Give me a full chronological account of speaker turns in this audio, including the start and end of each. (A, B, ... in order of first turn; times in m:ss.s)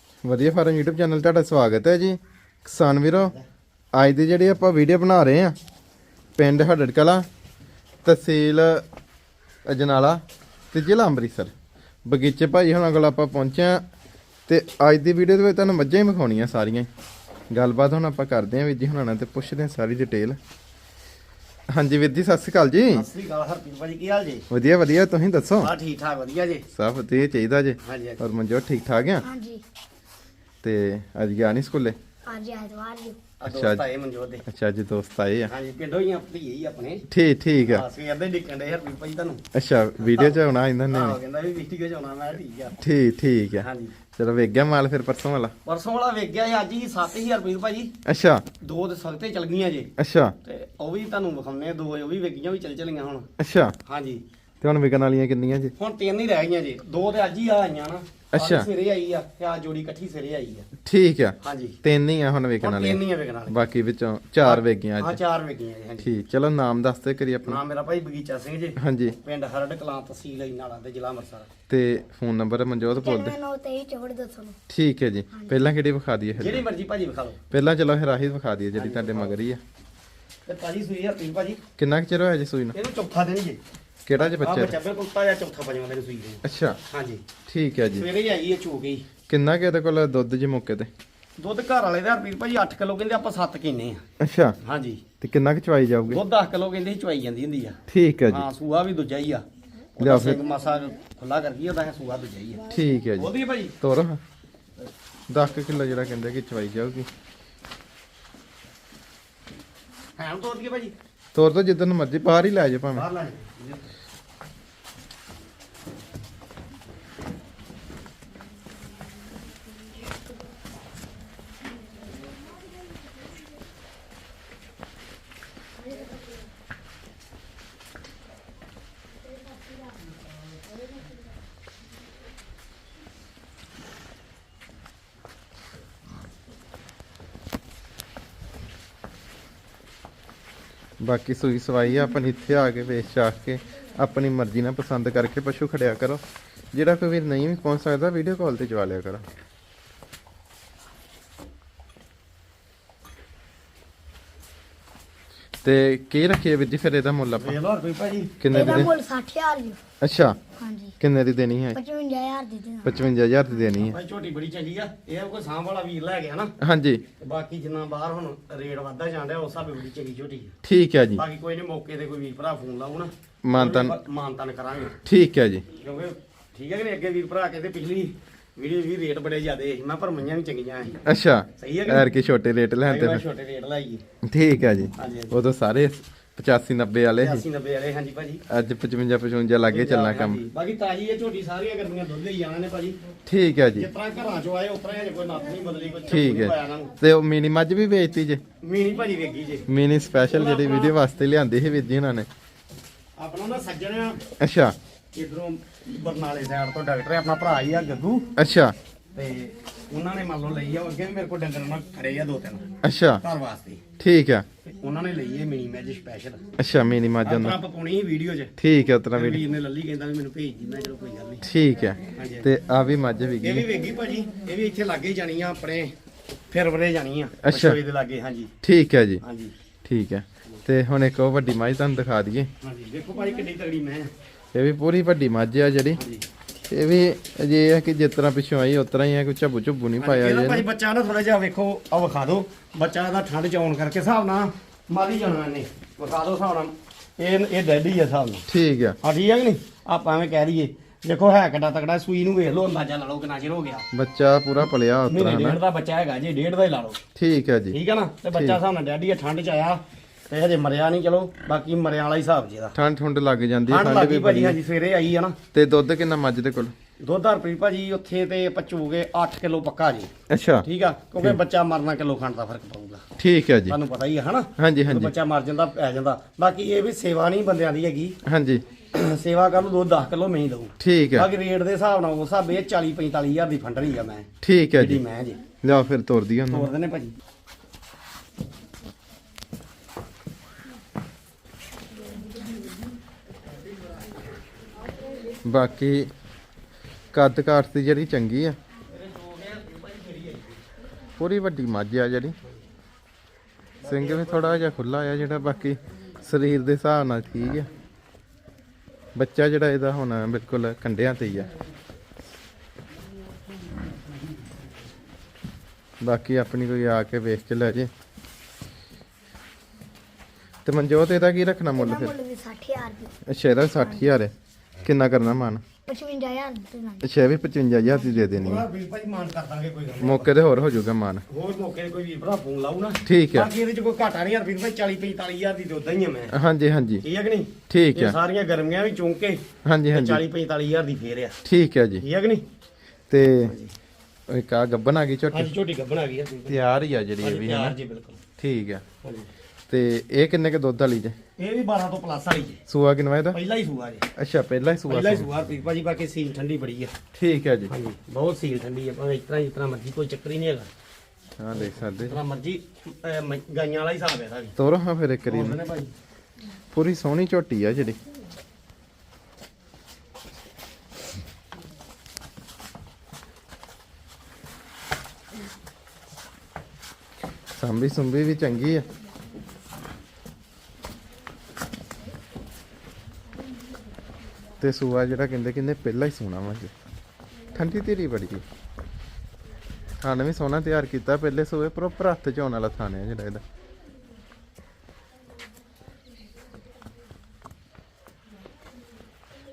0:00.2-0:03.3 A
0:03.9-0:05.5 A
0:06.4-0:07.3 A
0:08.0-0:08.8 A
0:09.6-0:11.5 A
0:12.0-0:13.8 A
0:14.5-0:16.9 A
0:17.5-0:20.4 A
0:21.7-0:23.0 A
0:22.9-0:24.5 B
0:24.5-0:25.7 A
0:25.6-0:26.6 B
0:26.7-0:29.2 A
0:27.8-0:28.2 B
0:29.2-0:29.6 C
0:30.6-0:32.0 A
0:32.3-0:33.2 C
0:33.4-0:34.4 B
0:33.5-0:33.8 A
0:34.5-0:35.5 A
0:35.5-0:37.0 B
0:37.1-0:37.8 A
0:37.6-0:39.4 B
0:39.5-0:41.2 A
0:40.0-0:42.8 B
0:42.8-0:45.5 A
0:43.6-0:43.9 B
0:45.6-0:47.9 B
0:48.0-0:48.4 A
0:48.6-0:49.9 B
0:50.0-0:50.4 A
0:50.4-0:53.3 B
0:53.4-0:53.8 A
0:53.8-0:54.2 B
0:54.6-0:55.7 A
0:55.8-1:00.7 B
0:58.3-0:58.7 A
1:00.8-1:05.2 A
1:01.4-1:01.8 B
1:02.6-1:03.6 B
1:04.4-1:06.1 B
1:06.0-1:07.6 A
1:07.4-1:11.5 B
1:08.8-1:09.2 A
1:11.7-1:13.4 A
1:13.0-1:14.6 C
1:14.7-1:16.6 A
1:15.3-1:15.6 C
1:16.4-1:17.4 B
1:17.5-1:19.6 A
1:18.7-1:19.4 B
1:20.4-1:21.6 B
1:21.8-1:22.8 A
1:22.7-1:23.6 B
1:24.0-1:24.8 A
1:24.2-1:27.2 B
1:26.4-1:26.8 A
1:27.5-1:28.1 A
1:27.9-1:29.0 B
1:29.3-1:30.9 A
1:31.4-1:34.0 B
1:34.2-1:34.6 A
1:34.6-1:35.0 B
1:35.2-1:36.2 A
1:36.1-1:39.4 B
1:37.9-1:38.5 A
1:40.0-1:43.7 B
1:40.0-1:40.4 A
1:42.7-1:44.2 A
1:45.3-1:47.1 A
1:50.2-1:50.9 B
1:51.3-1:53.0 A
1:52.9-1:53.8 B
2:21.0-2:29.2 A
2:35.6-2:37.6 A
2:37.4-2:38.9 B
2:38.4-2:38.9 A
2:38.5-2:39.8 C
2:40.0-2:40.4 A
2:40.6-2:41.0 C
2:41.0-2:41.8 A
2:41.7-2:43.0 C
2:42.8-2:44.0 A
2:43.8-2:46.5 B
2:46.6-2:47.0 A
2:47.2-2:50.5 B
2:50.6-2:51.2 A
2:51.2-2:55.0 B
2:53.4-2:54.0 A
2:55.0-2:55.6 A
2:55.7-3:01.0 B
3:01.0-3:03.2 A
3:01.6-3:02.1 B
3:02.8-3:04.0 B
3:04.2-3:07.4 A
3:05.0-3:05.4 B
3:07.2-3:08.4 B
3:08.5-3:10.4 A
3:09.7-3:13.0 B
3:13.3-3:13.9 A
3:13.8-3:16.9 B
3:16.1-3:18.4 A
3:18.6-3:19.7 B
3:19.7-3:22.3 A
3:20.2-3:21.0 B
3:23.2-3:24.2 B
3:24.4-3:24.8 A
3:25.1-3:28.3 B
3:28.4-3:28.8 A
3:29.1-3:33.8 B
3:32.8-3:33.2 A
3:34.0-3:34.4 A
3:34.6-3:36.4 B
3:36.6-3:37.6 A
3:37.2-3:38.5 B
3:38.6-3:39.4 A
3:39.1-3:41.5 B
3:41.4-3:43.7 A
3:42.1-3:42.5 B
3:43.4-3:45.9 B
3:46.5-3:48.5 B
3:47.4-3:47.8 A
3:48.6-3:49.2 A
3:49.2-3:49.5 B
3:49.8-3:52.5 A
3:52.6-3:54.1 B
3:54.5-3:56.0 A
3:55.9-3:56.2 B
3:56.7-4:00.7 A
4:00.0-4:08.4 B
4:08.5-4:09.0 A
4:09.0-4:13.8 B
4:13.9-4:15.6 A
4:15.1-4:17.0 B
4:17.2-4:17.8 A
4:17.7-4:22.8 B
4:18.3-4:18.6 A
4:22.7-4:24.6 A
4:23.7-4:25.4 B
4:25.5-4:26.7 A
4:27.0-4:30.1 B
4:30.3-4:30.6 A
4:30.6-4:33.0 B
4:33.2-4:33.8 A
4:33.7-4:38.2 B
4:34.6-4:35.1 A
4:38.2-4:38.6 A
4:38.9-4:45.4 B
4:40.8-4:41.3 A
4:44.4-4:45.0 A
4:45.6-4:46.7 A
4:46.5-4:47.1 B
4:55.4-4:56.1 A
4:57.1-4:58.6 A
4:58.9-5:00.6 B
5:01.2-5:02.4 A
5:03.8-5:04.6 B
5:03.8-5:07.7 A
5:09.1-5:11.5 A
5:16.0-5:17.9 A
5:20.6-5:22.1 A
5:21.7-5:23.1 C
5:23.3-5:24.3 A
5:23.7-5:24.0 C
5:24.8-5:25.6 A
5:25.8-5:27.0 C
5:27.0-5:28.6 A
5:28.3-5:30.3 B
5:30.0-5:31.2 A
5:31.3-5:36.3 B
5:33.0-5:33.5 A
5:36.3-5:37.0 A
5:37.0-5:41.4 B
5:37.7-5:38.2 A
5:39.6-5:40.2 A
5:41.4-5:42.0 A
5:42.0-5:42.4 B
5:43.1-5:43.5 A
5:43.2-5:43.7 B
5:44.3-5:45.5 A
5:45.3-5:46.6 B
5:46.5-5:47.8 A
5:47.2-5:48.2 B
5:48.4-5:48.8 A
5:49.0-5:49.3 B
5:49.7-5:51.2 A
5:51.4-5:52.6 B
5:52.7-5:53.4 A
5:53.3-5:54.1 B
5:54.2-5:55.3 A
5:54.9-5:56.9 B
5:57.1-5:57.7 A
5:57.7-6:00.7 B
6:01.4-6:02.2 A
6:01.6-6:04.5 B
6:04.6-6:05.6 A
6:05.2-6:05.9 B
6:06.7-6:08.0 A
6:17.6-6:18.9 A
6:24.6-6:26.7 A
6:27.5-6:28.4 A
6:30.0-6:33.4 A